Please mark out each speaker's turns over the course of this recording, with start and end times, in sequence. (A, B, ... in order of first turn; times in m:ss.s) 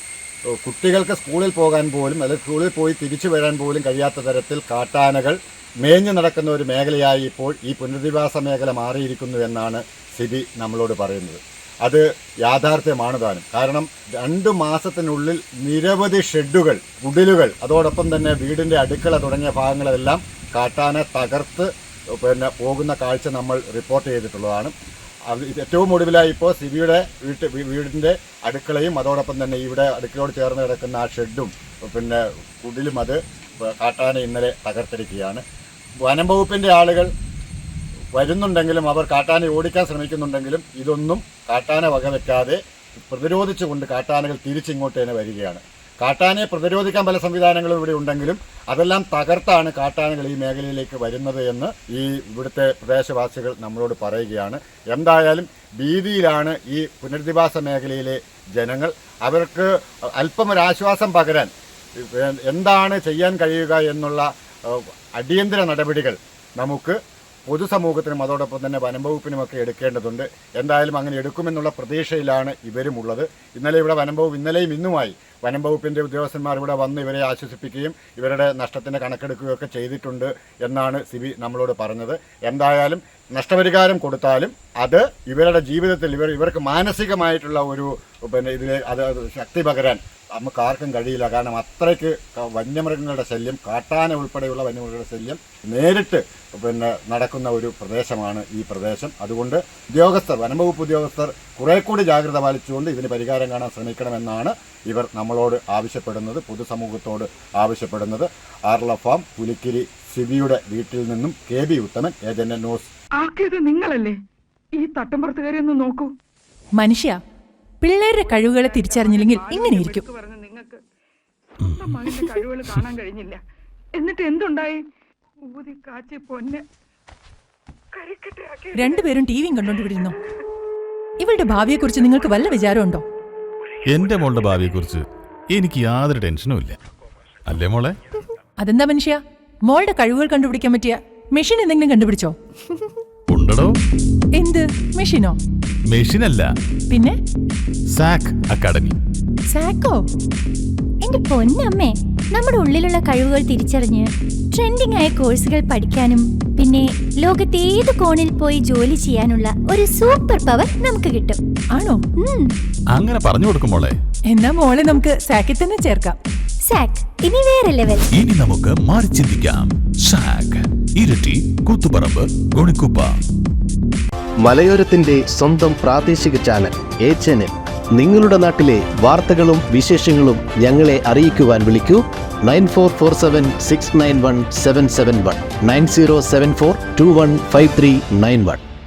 0:00.6-0:24.7 A
0:25.3-0:35.4 A
0:36.0-0:37.1 A
0:38.2-1:01.5 A
1:02.0-1:07.0 A
1:07.5-1:52.9 A
1:53.2-1:54.1 B
1:54.8-1:56.1 B
1:56.8-1:57.2 C
1:57.8-2:00.0 C
1:58.3-2:00.8 B
2:01.6-2:02.1 D
2:01.9-2:03.4 B
2:04.0-2:04.8 B
2:05.5-2:06.6 B
2:08.0-2:08.9 B
2:08.7-2:10.2 C
2:11.2-2:13.0 C
2:13.9-2:16.8 D
2:17.5-2:18.0 D
2:18.6-2:22.4 C
2:23.3-2:23.7 D
2:24.4-2:25.4 C
2:25.9-2:26.5 D
2:26.9-2:27.2 C
2:27.9-2:28.9 D
2:29.5-2:30.0 C
2:31.0-2:41.4 E
2:41.7-2:42.1 C
2:42.1-2:42.5 E
2:42.9-2:44.0 D
2:44.3-2:46.2 C
2:46.6-2:48.0 E
2:48.1-2:53.1 D
2:55.4-2:57.4 F
2:58.0-2:58.6 F
2:59.1-3:00.1 F
3:00.8-3:01.7 F
3:02.5-3:02.9 F
3:04.0-3:08.6 F